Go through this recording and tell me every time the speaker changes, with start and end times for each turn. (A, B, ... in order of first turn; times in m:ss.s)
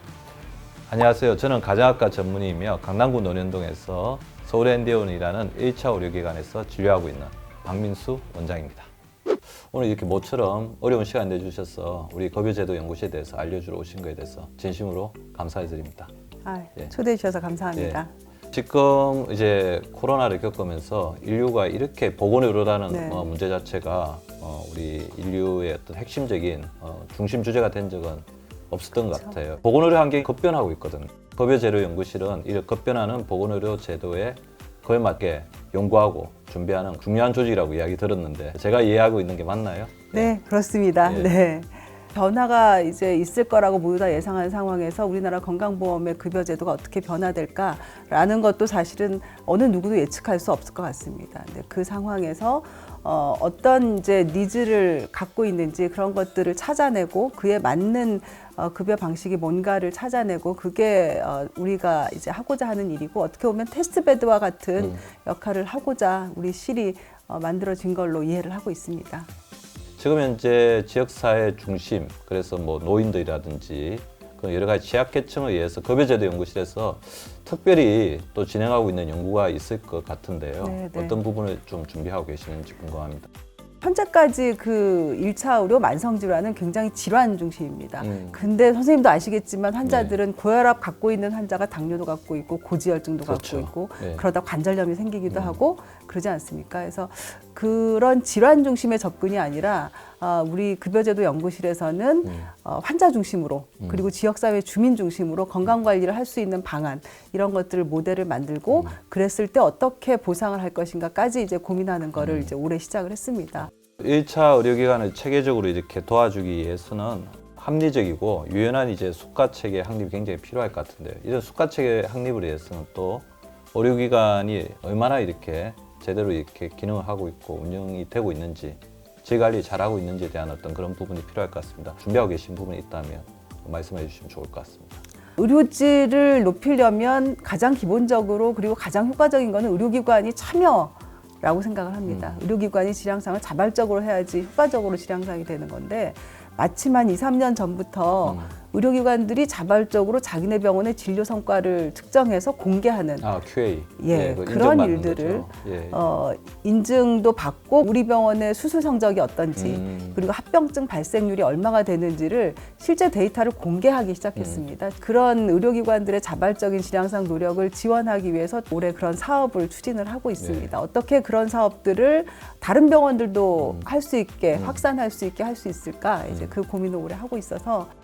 0:00.9-0:08.9 A
0:09.6-0:16.1 A
0:16.4-0:18.1 B
0:18.5-0:40.3 A
0:22.9-0:23.3 B
0:40.1-1:09.3 B
0:41.0-0:41.4 A
1:10.0-1:23.3 A
1:20.6-1:21.2 B
1:23.8-1:53.7 B
1:28.0-1:28.4 A
1:29.8-1:30.2 A
1:33.2-1:34.2 A
1:35.3-1:35.6 A
1:42.2-1:42.5 A
1:52.2-1:52.5 A
1:54.0-2:15.0 A
2:15.4-2:33.3 B
2:22.1-2:22.4 A
2:28.2-2:28.6 A
2:33.2-2:36.0 A
2:34.0-2:57.9 B
2:39.6-2:40.2 A
2:44.4-2:44.6 A
2:50.4-2:50.8 A
2:53.6-2:53.9 A
2:54.5-2:54.8 A